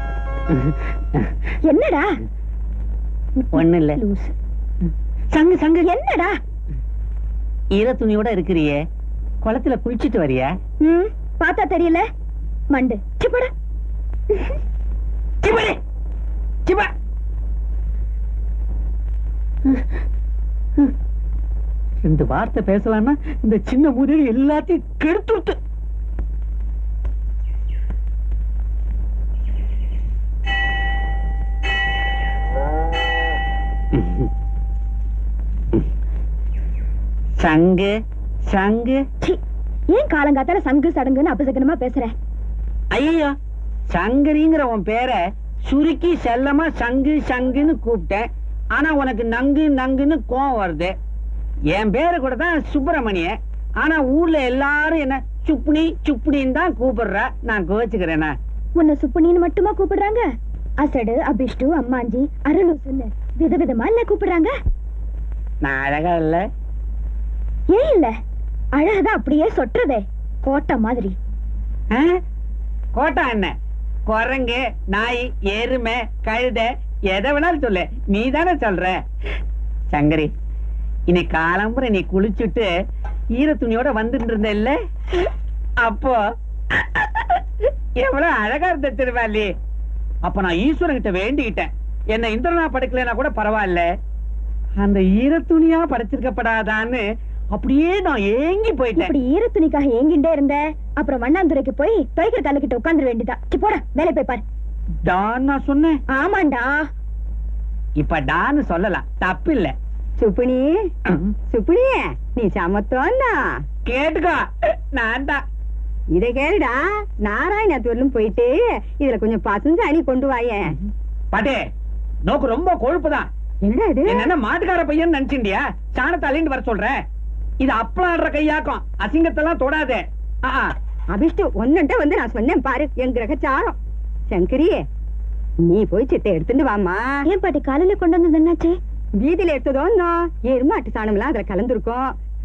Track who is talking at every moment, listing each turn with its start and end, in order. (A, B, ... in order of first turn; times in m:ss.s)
0:01.6-0:02.2 A
0:03.4-0:04.3 A
0:03.5-0:04.0 B
0:05.3-0:05.9 B
0:05.8-0:06.4 A
0:07.7-0:08.8 B
0:09.4-0:10.5 B
0:10.8-0:12.0 A
0:12.7-0:13.5 A
0:15.4-0:15.8 B
0:16.6-0:16.9 B
0:22.0-0:25.6 B
0:33.9-0:34.3 B
0:37.4-0:37.9 B
0:38.5-0:39.0 B
0:39.2-0:42.1 A
0:42.9-0:43.3 B
0:43.9-0:50.9 B
0:51.7-0:58.3 B
0:58.8-1:00.2 A
1:00.8-1:04.5 A
1:05.6-1:06.4 B
1:07.7-1:08.1 A
1:08.8-1:11.2 A
1:12.9-1:13.5 B
1:14.1-1:19.0 B
1:19.9-1:20.3 B
1:21.1-1:22.7 B
1:23.4-1:24.8 B
1:25.8-1:26.2 B
1:26.7-1:27.4 B
1:28.0-1:29.5 B
1:30.2-1:33.9 B
1:34.8-1:39.1 B
1:39.0-1:44.4 A
1:45.0-1:46.0 B
1:46.1-1:46.9 A
1:48.0-1:49.7 B
1:50.2-1:50.9 C
1:51.5-1:53.4 C
1:53.8-1:55.4 B
1:56.1-2:00.8 C
2:01.3-2:01.6 B
2:02.2-2:03.3 B
2:03.6-2:04.3 C
2:04.1-2:07.0 B
2:07.6-2:10.7 B
2:11.1-2:13.8 C
2:14.3-2:14.8 C
2:15.6-2:17.2 C
2:17.2-2:18.8 A
2:19.2-2:22.1 C